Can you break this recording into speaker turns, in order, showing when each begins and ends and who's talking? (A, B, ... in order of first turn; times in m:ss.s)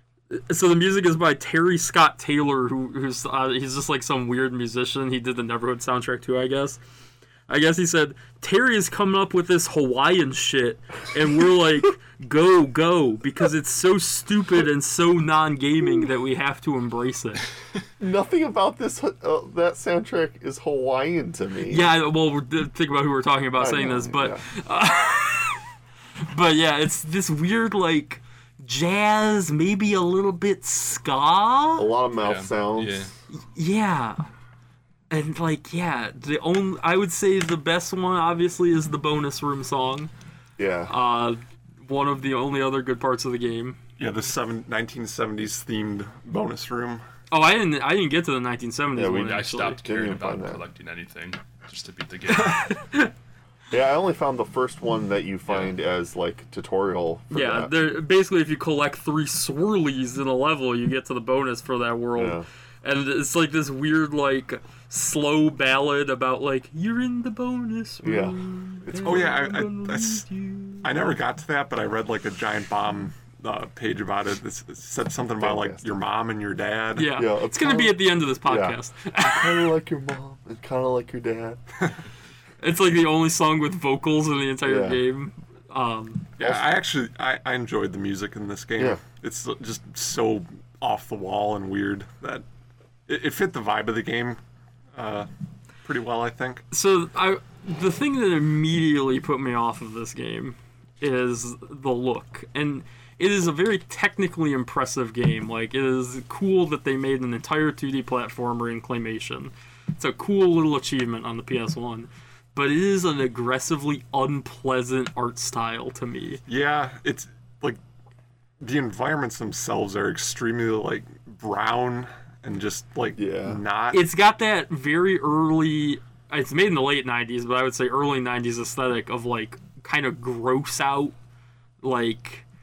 0:00.3-0:06.8 A
0:07.5-0:17.4 A
0:18.0-0:21.9 B
0:21.7-0:25.6 A
0:23.6-0:24.5 B
0:26.3-0:31.9 A
0:31.8-0:33.1 B
0:32.2-0:33.1 C
0:33.3-0:34.3 A
0:35.1-0:40.1 A
0:40.6-0:40.9 B
0:40.9-0:43.8 A
0:44.0-0:47.0 D
0:47.3-0:49.8 A
0:49.0-0:50.6 B
0:49.2-0:52.8 C
0:52.4-0:53.1 A
0:53.7-0:57.7 B
0:55.5-0:55.7 C
0:57.3-1:11.0 A
1:02.2-1:02.4 B
1:08.0-1:09.4 B
1:09.0-1:10.3 D
1:10.8-1:17.2 D
1:15.4-1:16.0 B
1:17.0-1:19.8 A
1:17.1-1:21.6 B
1:22.6-1:26.3 A
1:24.6-1:25.0 B
1:26.4-1:32.4 D
1:26.4-1:26.7 B
1:33.1-1:34.4 D
1:34.9-1:35.3 D
1:35.8-1:36.6 D
1:36.7-1:56.4 A
1:56.5-1:57.8 D
1:58.6-2:04.0 D
2:03.2-2:03.6 B
2:03.9-2:11.1 A
2:11.8-2:12.4 A